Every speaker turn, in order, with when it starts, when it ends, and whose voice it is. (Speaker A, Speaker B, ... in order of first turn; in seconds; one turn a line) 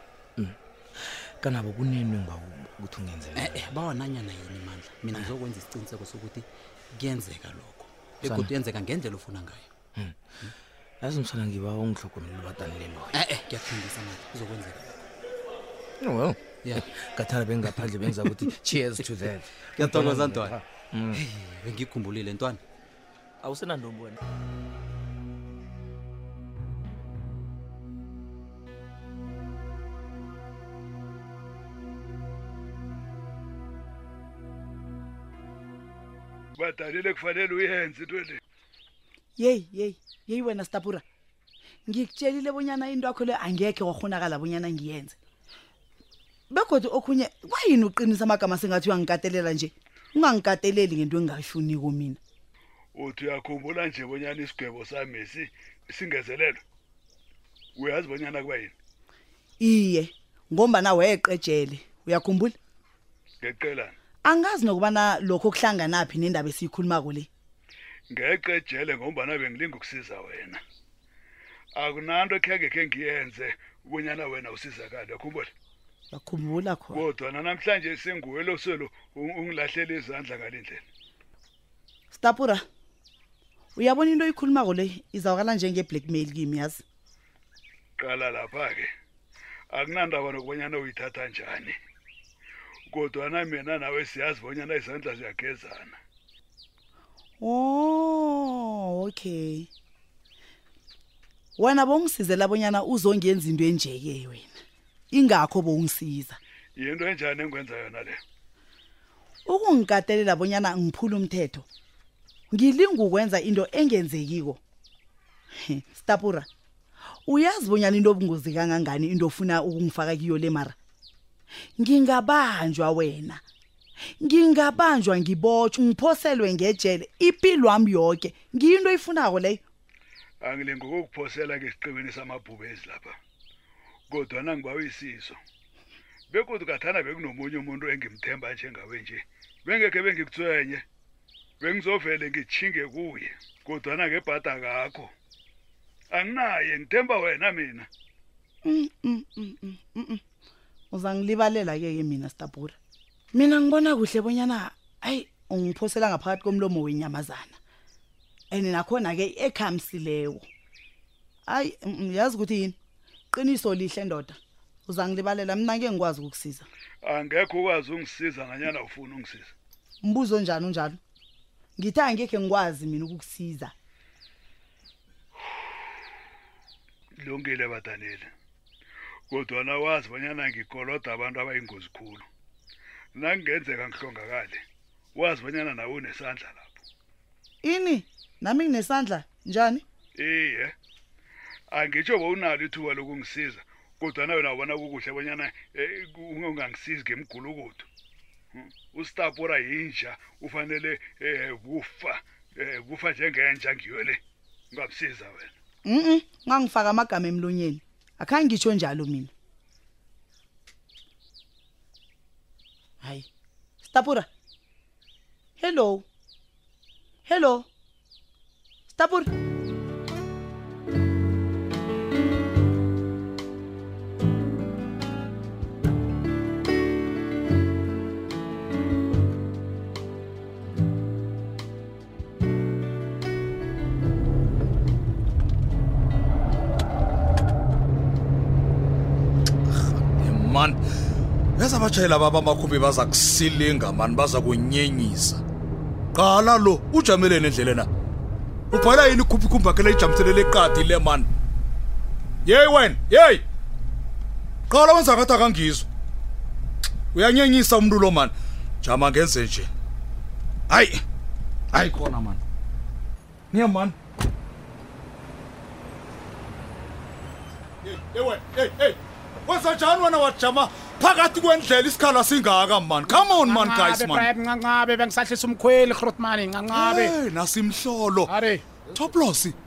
Speaker A: 0.4-3.7
Speaker B: 3.4-9.7
Speaker A: 8.2-8.5
Speaker A: 11.0-13.3
Speaker B: 13.1-15.1
Speaker A: 16.0-21.2
Speaker B: 19.8-20.6
Speaker B: 21.2-22.6
Speaker A: 23.4-24.2
Speaker C: 36.6-38.4
Speaker D: 39.4-41.0
Speaker D: 41.9-45.2
Speaker D: 46.5-52.2
Speaker C: 53.0-56.6
Speaker C: 57.8-58.7
Speaker D: 59.6-62.5
Speaker C: 63.4-63.9
Speaker D: 64.2-67.3
Speaker C: 68.1-70.6
Speaker C: 71.8-75.5
Speaker D: 76.1-77.0
Speaker C: 76.9-80.8
Speaker D: 82.1-82.6
Speaker D: 83.8-86.8
Speaker C: 88.0-88.9
Speaker C: 89.7-91.8
Speaker C: 92.9-96.0
Speaker D: 97.4-99.7
Speaker D: 101.6-104.5
Speaker D: 105.1-106.4
Speaker C: 106.8-108.2
Speaker D: 109.5-111.7
Speaker D: 112.5-114.6
Speaker D: 115.6-116.5
Speaker D: 117.3-120.8
Speaker D: 121.8-123.4
Speaker D: 124.2-129.6
Speaker C: 130.4-133.2
Speaker C: 134.1-135.4
Speaker C: 136.3-140.8
Speaker C: 141.6-145.1
Speaker C: 146.1-147.9
Speaker D: 148.7-150.2
Speaker D: 150.9-152.8
Speaker D: 153.3-157.6
Speaker D: 158.5-160.4
Speaker D: 161.5-162.8
Speaker D: 163.3-166.7
Speaker C: 167.1-169.5
Speaker D: 170.0-171.0
Speaker D: 171.8-173.7
Speaker C: 177.2-178.3
Speaker C: 179.3-182.2
Speaker C: 183.2-184.6
Speaker C: 185.2-186.7
Speaker D: 187.6-189.8
Speaker C: 190.2-190.7
Speaker C: 191.7-197.9
Speaker C: 198.6-204.2
Speaker C: 204.7-205.5
Speaker D: 205.9-209.3
Speaker D: 213.8-214.3
Speaker D: 215.6-216.1
Speaker D: 217.3-217.7
Speaker D: 218.9-219.3
Speaker E: 239.7-240.8
Speaker E: 241.6-245.4
Speaker E: 246.1-247.9
Speaker E: 248.7-251.3
Speaker E: 252.4-253.4
Speaker E: 254.7-255.9
Speaker E: 257.1-259.7
Speaker E: 260.7-261.0
Speaker E: 261.7-262.4
Speaker E: 263.5-264.0
Speaker E: 267.8-274.3
Speaker F: 273.1-277.2
Speaker E: 276.7-278.4
Speaker F: 278.3-278.6
Speaker E: 278.9-279.6